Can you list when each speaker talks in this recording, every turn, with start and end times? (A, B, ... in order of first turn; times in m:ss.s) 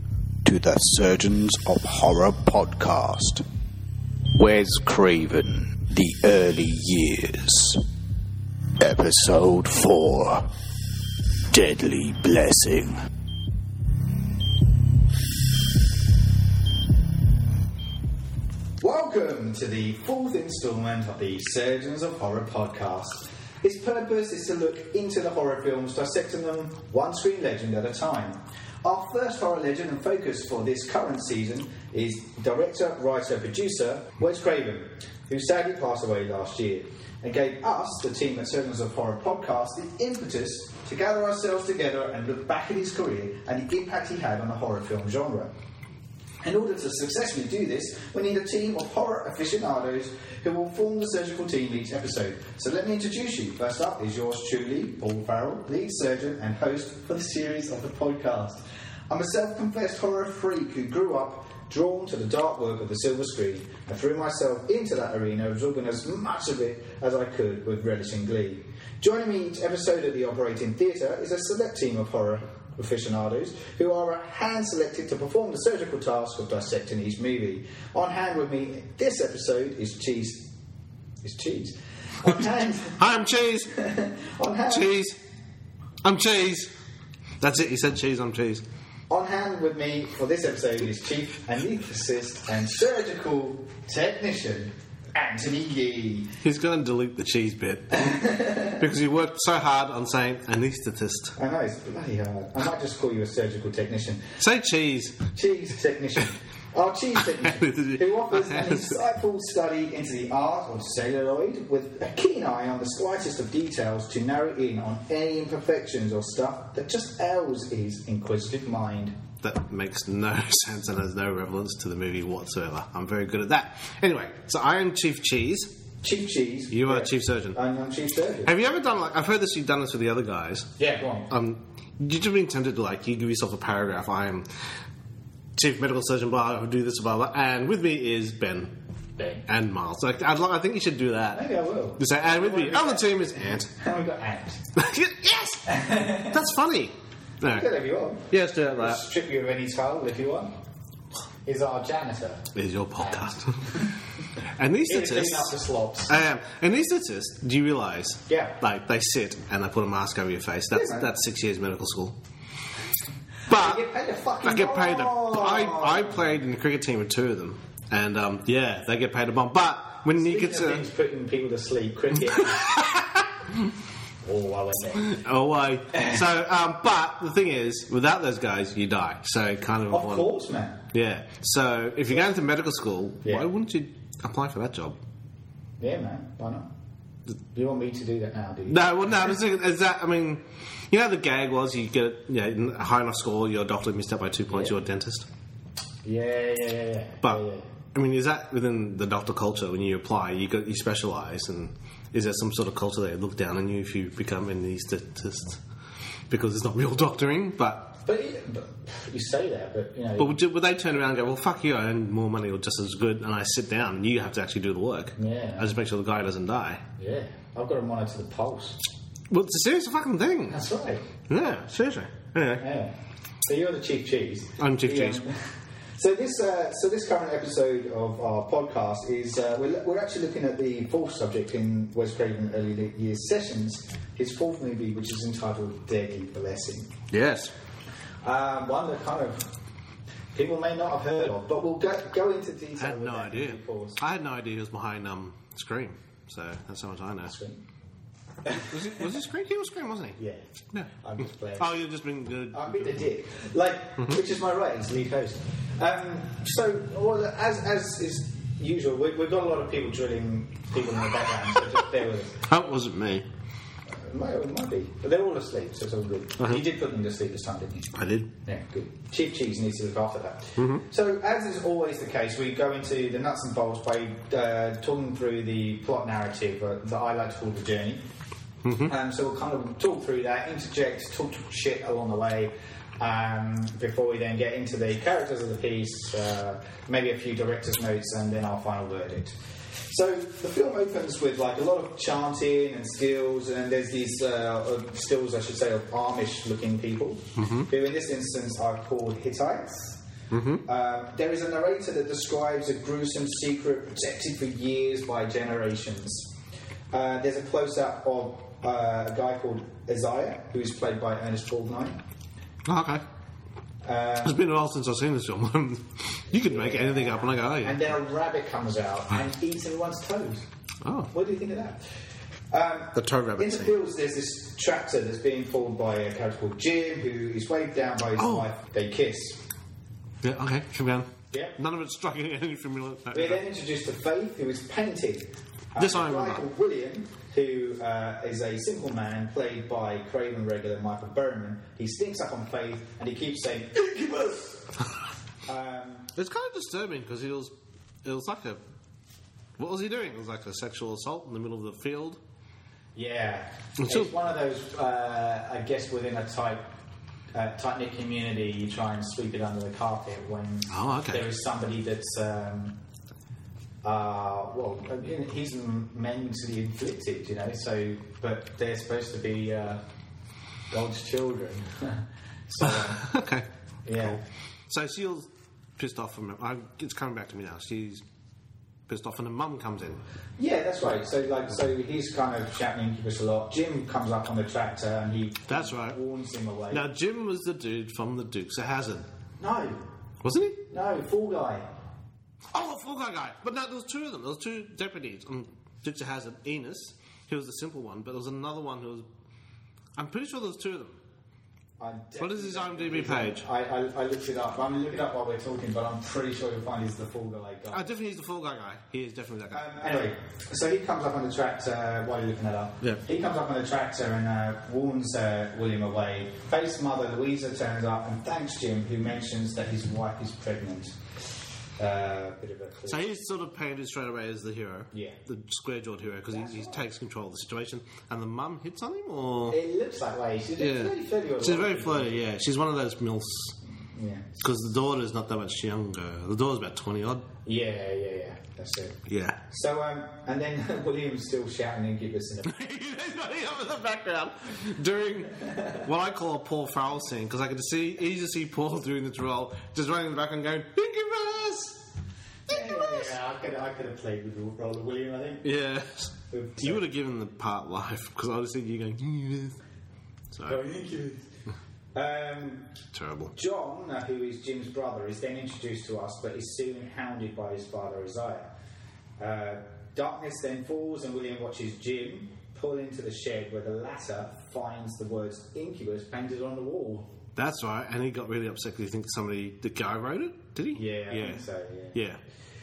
0:00.4-0:03.4 A
0:04.3-0:07.8 A
0:08.8-0:10.5 A
0:11.5-0:13.0 A
0:18.8-0:45.5 B
0:46.4-1:20.6 B
1:21.2-1:25.0 B
1:23.0-1:23.8 C
1:24.7-1:25.2 C
1:26.0-1:26.7 C
1:27.4-1:28.6 C
1:29.1-1:36.4 B
1:36.4-1:41.4 C
1:37.9-1:38.8 B
1:41.4-1:44.4 B
1:44.4-1:45.3 C
1:45.3-1:59.2 B
1:47.4-1:49.0 C
1:59.4-2:05.8 C
2:06.0-2:08.5 B
2:06.7-2:07.6 C
2:08.4-2:14.6 C
2:10.8-2:11.3 B
2:15.6-2:23.7 C
2:21.3-2:24.7 B
2:24.7-2:27.7 C
2:25.6-2:26.4 B
2:27.5-2:30.5 B
2:28.3-2:29.0 C
2:31.4-2:34.0 B
2:32.5-2:33.8 C
2:34.5-2:42.2 C
2:34.7-2:36.2 B
2:38.3-2:38.6 B
2:40.7-2:41.1 B
2:43.4-2:46.4 B
2:43.5-2:43.9 C
2:44.4-2:50.9 C
2:50.1-2:52.9 B
2:52.4-2:53.2 C
2:54.2-2:55.2 B
2:55.0-3:00.3 C
2:55.9-2:56.2 B
2:59.9-3:00.9 B
3:00.9-3:05.0 C
3:05.8-3:06.7 B
3:07.4-3:09.4 B
3:08.7-3:15.3 C
3:14.5-3:14.8 B
3:16.0-3:17.7 B
3:17.9-3:25.6 C
3:26.3-3:28.0 C
3:28.0-3:30.4 B
3:30.2-3:36.8 C
3:35.2-3:35.7 B
3:37.0-3:38.8 B
3:39.3-3:40.6 C
3:40.5-3:41.1 B
3:41.3-3:42.6 C
3:42.6-3:57.0 B
3:44.6-3:45.2 C
3:57.1-3:57.5 C
3:58.2-3:59.5 B
4:00.3-4:04.0 B
4:02.8-4:07.3 C
4:07.2-4:07.6 B
4:08.4-4:09.2 B
4:08.5-4:10.2 C
4:10.2-4:11.8 B
4:11.5-4:13.1 C
4:12.5-4:22.5 B
4:22.4-4:23.3 C
4:23.9-4:38.0 B
4:26.4-4:26.6 C
4:27.9-4:28.3 C
4:30.6-4:30.8 C
4:38.6-4:38.9 C
4:38.8-5:00.0 B
4:57.4-4:57.7 C
5:00.3-5:00.6 C
5:00.6-5:06.4 B
5:06.9-5:12.0 B
5:12.6-5:13.0 C
5:13.8-5:14.4 B
5:14.2-5:17.9 C
5:16.4-5:20.5 B
5:20.8-5:21.1 C
5:21.1-5:21.8 B
5:22.5-5:29.4 B
5:22.9-5:23.8 C
5:28.2-5:28.5 C
5:30.2-5:33.4 C
5:31.3-5:31.6 B
5:33.1-5:44.8 B
5:35.8-5:36.4 C
5:45.4-5:46.1 B
5:46.1-5:48.6 C
5:49.6-5:52.2 C
5:52.9-5:56.8 B
5:53.8-5:54.1 C
5:57.3-6:02.8 B
6:00.7-6:01.3 C
6:03.8-6:09.8 B
6:10.7-6:13.2 B
6:12.6-6:13.5 C
6:13.8-6:14.2 B
6:14.7-6:18.0 C
6:18.9-6:20.0 C
6:20.4-6:26.8 B
6:25.5-6:26.0 C
6:26.7-6:29.1 C
6:29.4-6:29.9 B
6:30.2-6:30.6 C
6:30.7-6:31.7 B
6:32.5-6:39.0 C
6:40.0-6:41.0 C
6:41.8-6:47.9 B
6:42.2-6:43.4 C
6:47.7-6:49.7 C
6:49.5-7:01.0 B
7:01.8-7:03.0 B
7:02.8-7:09.6 C
7:04.9-7:05.2 B
7:06.3-7:06.9 B
7:09.5-7:12.2 B
7:10.6-7:13.6 C
7:13.7-7:14.4 B
7:14.4-7:17.3 C
7:17.4-7:22.6 B
7:19.1-7:19.4 C
7:22.4-7:31.8 C
7:25.3-7:25.9 B
7:32.5-7:35.5 B
7:32.5-7:33.2 C
7:35.4-7:39.6 C
7:36.3-7:36.8 B
7:40.3-7:40.6 C
7:40.4-7:41.3 B
7:41.9-7:42.7 B
7:42.9-7:43.3 C
7:43.3-7:48.5 B
7:49.2-7:57.1 B
7:57.4-8:02.2 C
8:00.7-8:02.0 B